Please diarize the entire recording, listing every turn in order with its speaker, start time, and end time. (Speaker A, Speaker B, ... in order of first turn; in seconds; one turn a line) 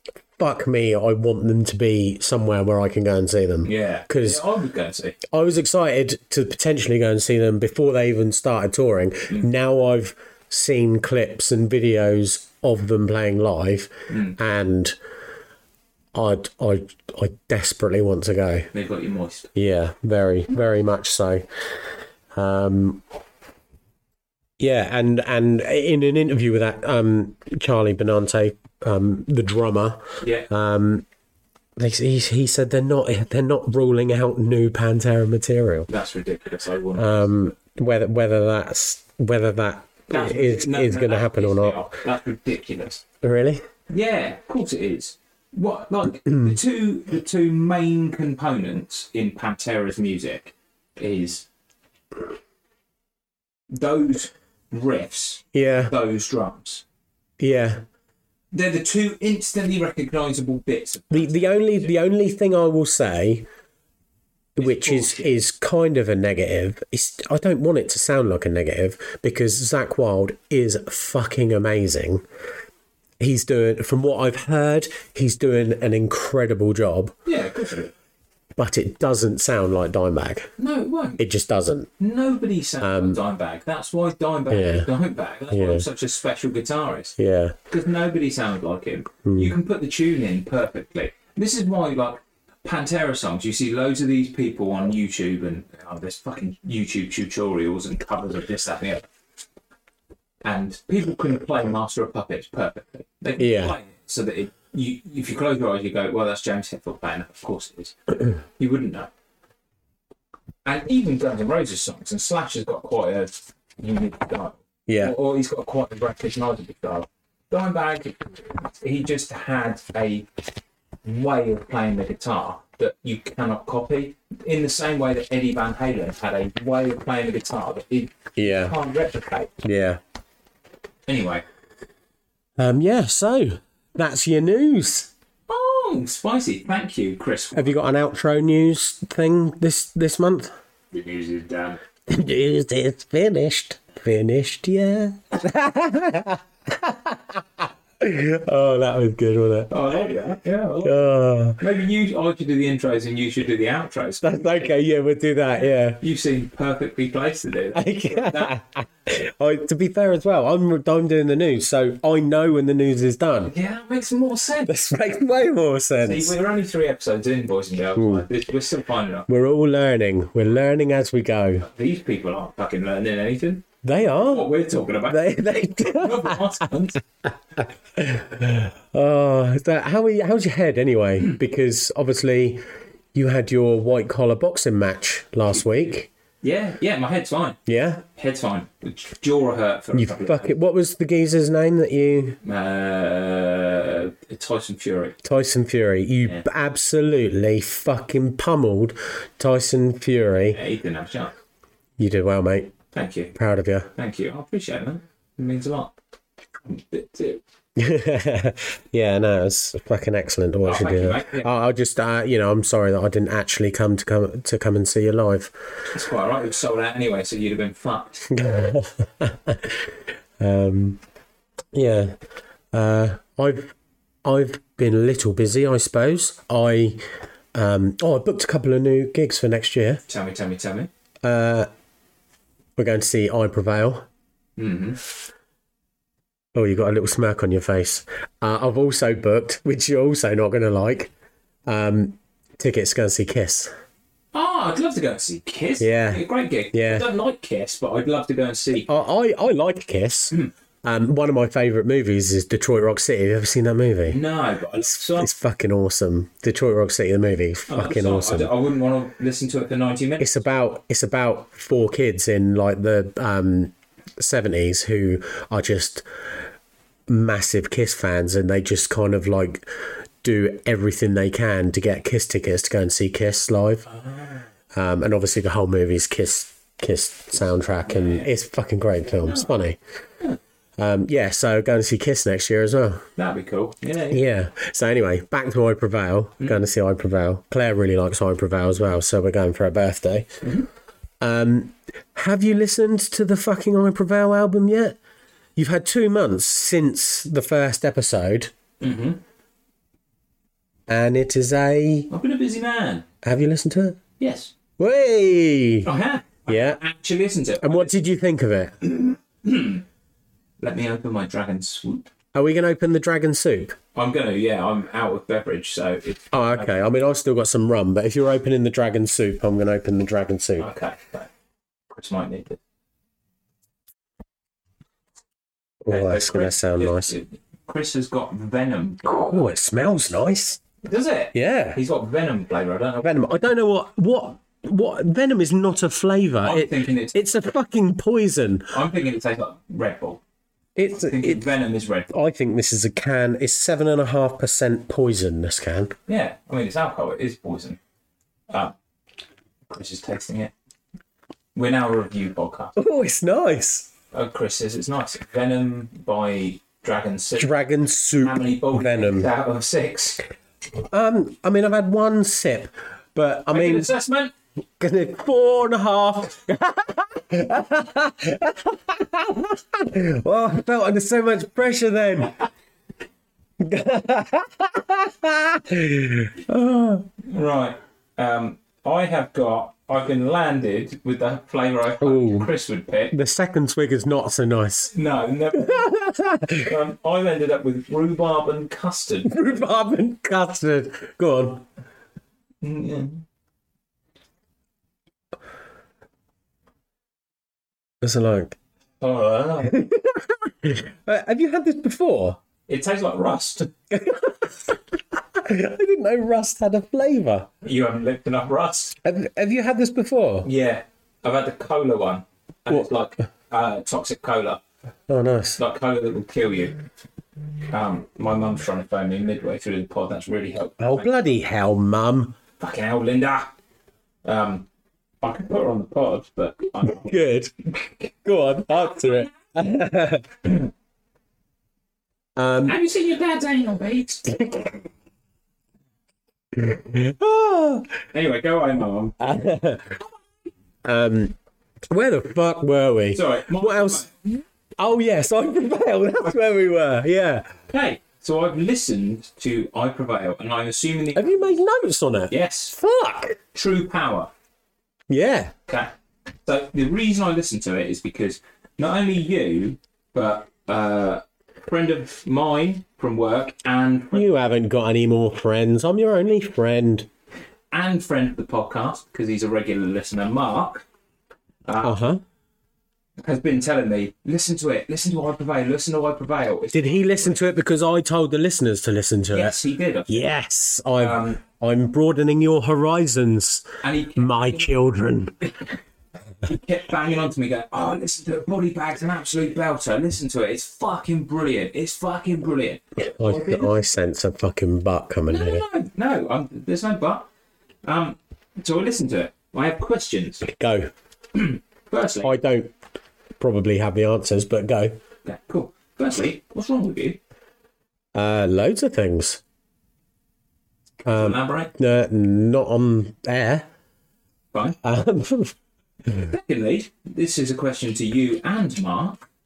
Speaker A: 0.4-4.4
Speaker B: 3.6-5.2
Speaker A: 5.3-14.9
Speaker B: 14.1-14.3
Speaker A: 16.1-18.7
Speaker B: 18.7-19.5
Speaker A: 19.5-21.4
Speaker A: 22.3-23.0
Speaker A: 24.6-31.0
Speaker B: 30.2-30.5
Speaker A: 31.8-35.9
Speaker B: 35.9-37.3
Speaker A: 37.0-41.8
Speaker B: 40.1-43.0
Speaker A: 43.2-43.6
Speaker B: 43.9-51.5
Speaker B: 53.7-56.8
Speaker A: 55.5-55.9
Speaker A: 57.4-57.8
Speaker B: 58.5-61.9
Speaker A: 61.1-63.5
Speaker A: 64.5-72.2
Speaker B: 64.6-65.3
Speaker A: 73.2-77.1
Speaker B: 77.2-77.9
Speaker A: 78.6-80.5
Speaker B: 80.6-81.2
Speaker A: 81.2-81.9
Speaker B: 82.0-87.2
Speaker A: 82.8-83.2
Speaker A: 84.5-84.9
Speaker A: 85.5-85.8
Speaker A: 87.2-87.5
Speaker B: 87.7-99.0
Speaker A: 89.2-89.5
Speaker B: 100.4-108.0
Speaker A: 103.4-103.8
Speaker B: 108.6-109.1
Speaker B: 110.6-120.3
Speaker A: 114.9-115.1
Speaker B: 121.0-129.5
Speaker A: 128.4-128.7
Speaker A: 129.6-130.0
Speaker B: 131.1-131.4
Speaker A: 132.6-135.1
Speaker B: 135.5-137.8
Speaker A: 137.5-140.5
Speaker B: 140.9-141.8
Speaker A: 142.1-149.7
Speaker B: 149.7-151.0
Speaker A: 150.8-151.6
Speaker B: 151.6-154.4
Speaker A: 154.2-156.0
Speaker B: 156.0-158.5
Speaker A: 157.7-163.5
Speaker B: 163.4-164.7
Speaker A: 164.7-166.3
Speaker B: 166.0-169.3
Speaker A: 168.0-168.2
Speaker A: 169.3-171.7
Speaker B: 171.6-173.7
Speaker A: 173.8-174.5
Speaker B: 174.2-175.3
Speaker A: 175.1-176.5
Speaker B: 175.8-177.0
Speaker A: 177.6-182.6
Speaker A: 183.1-186.1
Speaker B: 185.5-185.9
Speaker B: 186.4-187.6
Speaker A: 187.7-188.0
Speaker B: 188.2-190.5
Speaker A: 189.9-192.4
Speaker B: 192.4-195.2
Speaker A: 195.2-200.6
Speaker B: 200.5-201.3
Speaker A: 202.0-202.7
Speaker B: 202.9-203.3
Speaker A: 203.3-203.9
Speaker B: 203.9-205.9
Speaker B: 206.7-207.4
Speaker A: 207.8-215.5
Speaker B: 210.6-211.5
Speaker B: 215.9-218.4
Speaker A: 218.3-221.0
Speaker A: 221.7-222.2
Speaker A: 222.7-227.0
Speaker A: 227.5-230.0
Speaker B: 230.1-230.9
Speaker A: 231.2-231.7
Speaker A: 232.8-234.1
Speaker B: 234.6-235.0
Speaker A: 236.5-241.1
Speaker A: 241.7-243.7
Speaker B: 244.3-248.9
Speaker A: 245.8-247.1
Speaker A: 248.9-254.2
Speaker B: 254.1-255.3
Speaker A: 255.0-258.5
Speaker B: 257.7-260.4
Speaker A: 260.2-266.0
Speaker A: 267.1-269.7
Speaker A: 270.2-273.9
Speaker A: 274.7-279.8
Speaker B: 277.9-278.3
Speaker A: 280.8-283.1
Speaker B: 283.2-284.2
Speaker A: 284.1-290.3
Speaker A: 291.2-294.9
Speaker A: 295.6-298.5
Speaker B: 298.8-299.2
Speaker A: 300.9-302.1
Speaker B: 302.1-303.1
Speaker A: 303.2-304.0
Speaker B: 304.2-304.5
Speaker A: 304.8-305.9
Speaker B: 305.8-308.1
Speaker A: 306.5-306.8
Speaker A: 307.6-308.9
Speaker B: 308.9-309.8
Speaker B: 310.6-312.1
Speaker A: 312.3-313.8
Speaker B: 313.9-316.8
Speaker A: 316.3-320.7
Speaker B: 320.6-321.3
Speaker B: 321.9-322.6
Speaker A: 325.8-327.1
Speaker B: 325.9-329.4
Speaker A: 329.0-330.6
Speaker B: 330.8-333.2
Speaker A: 331.3-331.8
Speaker A: 333.0-338.7
Speaker B: 336.4-337.1
Speaker B: 338.7-340.2
Speaker A: 340.8-341.5
Speaker B: 340.9-342.1
Speaker A: 342.1-345.9
Speaker B: 346.1-347.8
Speaker B: 348.5-348.7
Speaker B: 349.7-350.5
Speaker B: 351.5-352.8
Speaker A: 352.8-353.9
Speaker B: 354.1-357.6
Speaker A: 357.4-359.3
Speaker B: 358.2-360.2
Speaker A: 360.9-363.9
Speaker B: 363.5-364.3
Speaker A: 364.8-372.4
Speaker A: 373.6-377.1
Speaker B: 377.2-383.1
Speaker A: 382.0-382.5
Speaker A: 383.1-384.9
Speaker B: 384.9-386.0
Speaker A: 385.5-386.7
Speaker B: 386.6-389.4
Speaker A: 389.2-391.6
Speaker B: 392.6-393.2
Speaker A: 398.0-398.6
Speaker B: 399.0-399.8
Speaker A: 399.6-402.4
Speaker B: 402.7-403.7
Speaker A: 403.9-407.5
Speaker B: 407.6-409.0
Speaker A: 409.0-410.5
Speaker B: 410.4-414.6
Speaker A: 415.1-415.6
Speaker B: 415.6-416.8
Speaker B: 417.7-421.1
Speaker A: 420.8-422.4
Speaker B: 422.6-423.5
Speaker B: 424.2-424.7
Speaker B: 425.2-427.2
Speaker A: 426.8-430.6
Speaker B: 429.0-429.2
Speaker A: 432.4-432.8
Speaker B: 432.6-434.4
Speaker A: 434.4-434.7
Speaker A: 436.5-437.9
Speaker B: 438.1-439.3
Speaker A: 439.2-440.0
Speaker A: 440.8-441.3
Speaker A: 441.9-444.1
Speaker B: 443.1-444.4
Speaker A: 444.8-447.5
Speaker B: 447.7-451.5
Speaker A: 451.1-453.4
Speaker B: 452.3-452.8
Speaker B: 453.5-454.3
Speaker A: 455.1-455.5
Speaker B: 455.7-455.9
Speaker B: 456.4-464.3
Speaker A: 464.1-467.1
Speaker B: 467.7-470.8
Speaker B: 471.6-472.1
Speaker A: 471.8-472.2
Speaker B: 473.2-477.4
Speaker A: 476.7-479.6
Speaker B: 479.3-480.3
Speaker A: 480.1-485.4
Speaker B: 480.9-481.4
Speaker B: 483.8-484.8
Speaker B: 486.4-493.9
Speaker A: 493.2-495.6
Speaker B: 495.3-497.3
Speaker B: 497.8-500.5
Speaker A: 500.4-500.9
Speaker B: 501.3-502.3
Speaker A: 502.2-502.7
Speaker A: 503.4-505.0
Speaker B: 505.2-507.2
Speaker A: 508.1-509.4
Speaker A: 511.0-513.7
Speaker B: 511.1-511.7
Speaker A: 514.8-515.5
Speaker B: 516.1-519.2